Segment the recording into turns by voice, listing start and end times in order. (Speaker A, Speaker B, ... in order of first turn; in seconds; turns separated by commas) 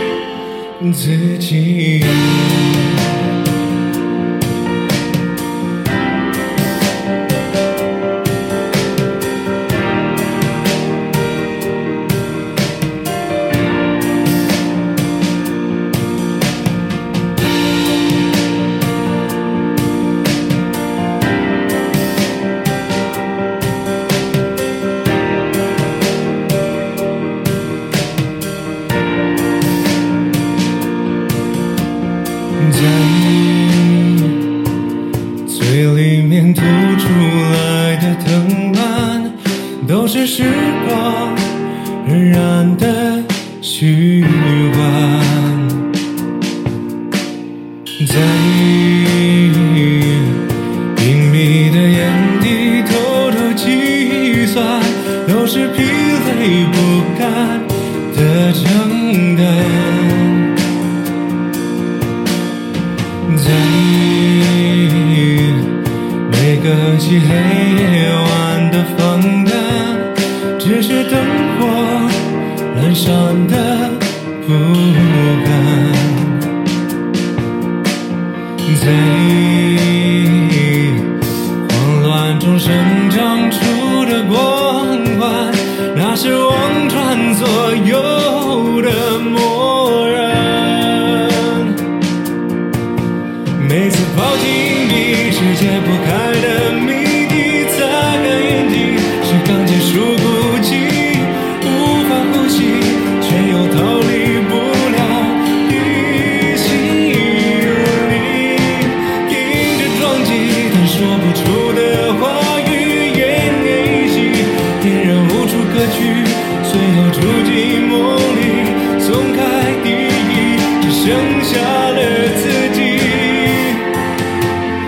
Speaker A: 0.8-3.1, Speaker A: 32.6-34.4, Speaker A: 35.5-45.9, Speaker A: 48.0-50.4, Speaker A: 51.0-60.5, Speaker A: 63.3-65.8, Speaker A: 66.3-76.5, Speaker A: 78.7-81.1, Speaker A: 81.6-91.8, Speaker A: 93.6-123.9